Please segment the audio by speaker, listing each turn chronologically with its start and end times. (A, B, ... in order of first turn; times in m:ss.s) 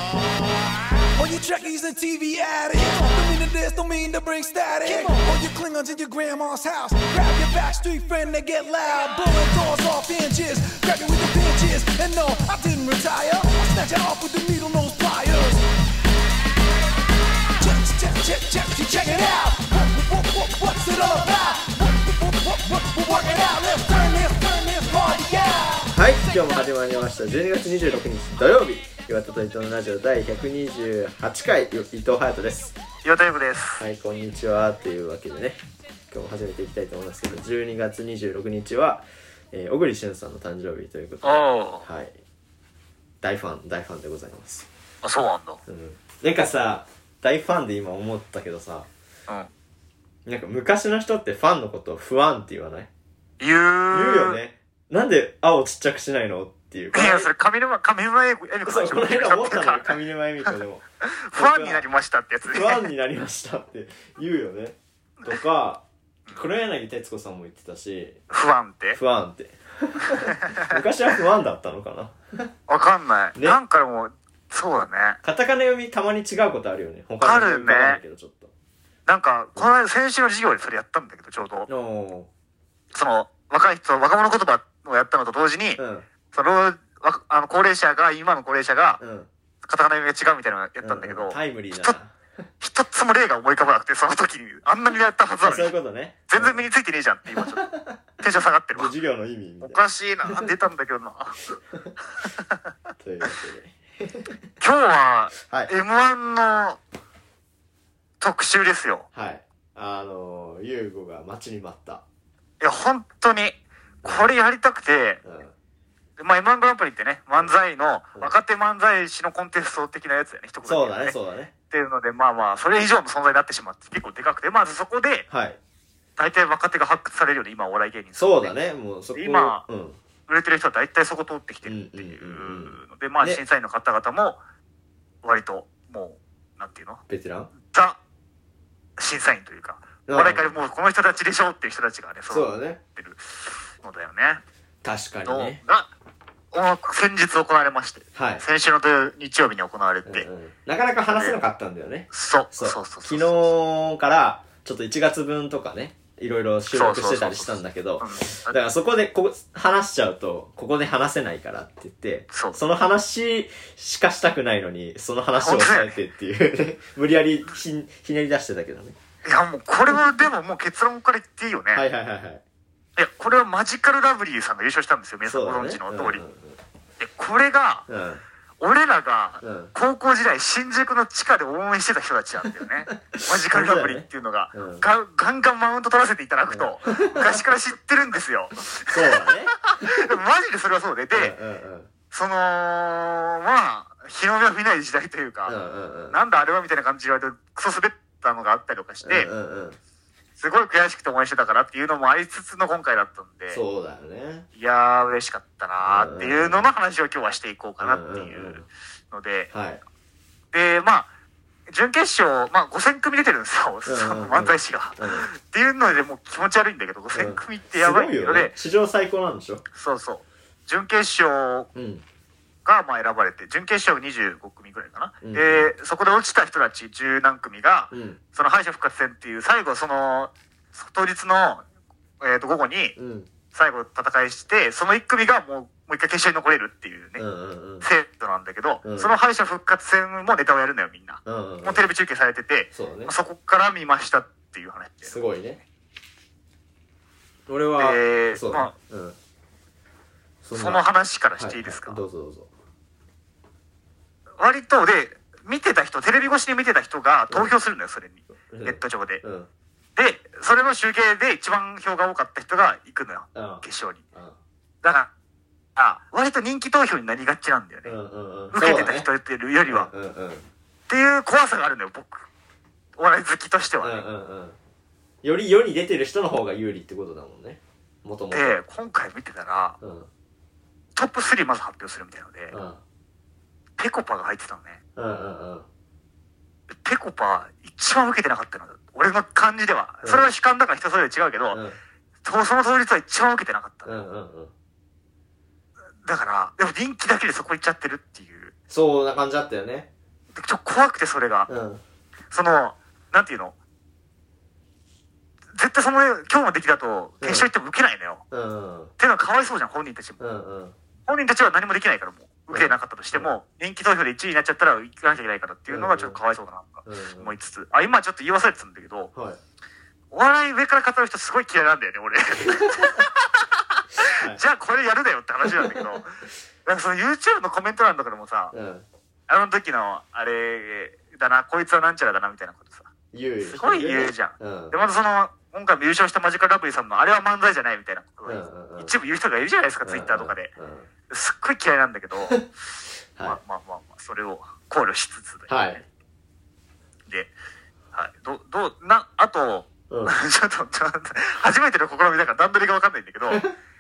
0:01.1-0:15.7 A
0:17.6-0:25.9 A
0:25.9-0:32.8 B
0:33.0-0:33.8 C
0:33.8-0:35.6 B
0:36.1-0:42.2 B
0:41.2-0:41.8 C
0:43.2-0:44.7 B
0:45.0-0:45.6 C
0:45.7-0:48.9 B
0:50.3-0:52.9 B
0:53.4-0:54.4 C
0:53.9-0:57.3 B
0:56.9-1:02.9 C
0:58.7-1:00.8 B
1:01.4-1:01.9 B
1:02.5-1:08.2 B
1:08.3-1:09.0 C
1:09.0-1:12.5 B
1:10.1-1:10.8 C
1:12.7-1:15.2 C
1:15.2-1:18.5 B
1:17.2-1:18.0 C
1:19.1-1:21.7 C
1:21.7-1:22.3 B
1:22.9-1:25.8 C
1:25.8-1:26.1 B
1:26.3-1:29.0 C
1:29.0-1:29.3 B
1:29.7-1:32.0 C
1:30.8-1:32.2 B
1:32.6-1:35.7 C
1:35.4-1:36.6 B
1:36.3-1:37.7 C
1:37.3-1:38.0 B
1:38.2-1:38.9 C
1:38.7-1:40.5 B
1:39.6-1:41.5 C
1:42.2-1:42.6 C
1:43.0-1:44.4 B
1:44.6-1:46.8 C
1:45.4-1:45.7 B
1:48.2-1:49.1 C
1:49.1-1:52.0 B
1:52.6-1:55.2 C
1:55.2-1:55.5 B
1:56.2-2:01.2 C
2:00.6-2:01.5 B
2:01.7-2:05.3 C
2:05.3-2:05.6 B
2:06.2-2:08.6 C
2:08.2-2:10.0 B
2:09.1-2:09.6 C
2:10.3-2:14.4 C
2:11.6-2:13.4 B
2:15.2-2:17.0 C
2:17.1-2:17.5 B
2:17.6-2:18.0 C
2:19.0-2:24.4 C
2:20.1-2:20.6 B
2:22.3-2:22.8 B
2:24.8-2:25.6 B
2:25.2-2:25.9 C
2:26.5-2:30.3 C
2:28.2-2:28.4 B
2:30.1-2:49.0 B
2:31.1-2:31.4 C
2:32.1-2:33.6 C
2:36.7-2:38.6 C
2:42.3-2:42.6 C
2:45.4-2:46.0 C
2:49.2-2:51.8 C
2:51.7-2:52.4 B
2:53.0-2:56.2 C
2:55.2-2:56.6 B
2:57.0-2:57.9 C
2:57.9-2:58.2 B
2:58.6-3:11.4 C
2:59.4-2:59.7 B
3:02.9-3:04.8 B
3:06.5-3:07.4 B
3:08.9-3:10.1 B
3:11.1-3:11.9 B
3:12.1-3:15.6 C
3:15.5-3:16.2 B
3:16.1-3:19.3 C
3:19.0-3:19.8 B
3:20.4-3:23.6 C
3:23.5-3:24.5 B
3:24.6-3:29.5 C
3:25.8-3:26.7 B
3:27.8-3:28.6 B
3:29.5-3:29.8 B
3:30.5-3:31.1 C
3:31.7-3:38.6 C
3:33.9-3:35.3 B
3:37.1-3:39.6 B
3:39.8-3:41.7 C
3:41.8-3:42.0 B
3:42.6-3:51.6 C
3:45.2-3:45.7 B
3:47.9-3:48.2 B
3:52.2-3:53.0 C
3:53.0-3:53.3 B
3:53.5-3:57.2 C
3:57.2-3:57.9 B
3:57.8-4:05.2 C
3:58.8-3:59.1 B
4:01.3-4:01.8 B
4:02.7-4:03.1 B
4:05.1-4:05.6 B
4:07.5-4:09.2 B
4:07.8-4:08.8 C
4:10.4-4:10.8 B
4:10.5-4:12.0 C
4:11.4-4:12.5 B
4:14.4-4:19.2 C
4:18.5-4:19.5 B
4:20.0-4:24.0 C
4:23.4-4:24.4 B
4:24.8-4:25.1 C
4:25.8-4:28.0 C
4:27.8-4:29.1 B
4:28.5-4:29.9 C
4:29.7-4:30.5 B
4:30.9-4:32.3 C
4:33.0-4:34.0 C
4:33.8-4:34.6 B
4:35.2-4:38.6 B
4:38.3-4:39.8 C
4:39.8-4:40.1 B
4:41.0-4:42.6 C
4:42.5-4:42.8 B
4:43.8-4:44.8 C
4:45.0-4:45.7 B
4:46.8-4:51.6 C
4:50.0-4:50.3 B
4:51.5-4:51.8 B
4:52.2-4:54.0 C
4:53.8-4:54.5 B
4:56.0-4:58.5 C
4:58.7-4:59.9 B
5:00.4-5:01.5 C
5:01.5-5:01.8 B
5:02.3-5:03.6 C
5:05.5-5:08.2 C
5:07.2-5:07.5 B
5:08.3-5:08.9 B
5:09.0-5:10.2 C
5:10.2-5:10.7 B
5:11.1-5:19.1 C
5:12.5-5:13.4 B
5:15.7-5:16.2 B
5:16.9-5:17.3 B
5:20.1-5:28.5 C
5:22.5-5:22.9 B
5:24.0-5:24.4 B
5:25.4-5:26.0 B
5:28.5-5:28.8 B
5:29.3-5:32.9 C
5:33.1-5:34.7 B
5:33.4-5:40.5 C
5:38.3-5:38.9 B
5:39.8-5:40.9 B
5:41.1-5:42.4 C
5:43.2-5:45.8 C
5:45.5-5:45.8 B
5:47.9-5:53.5 C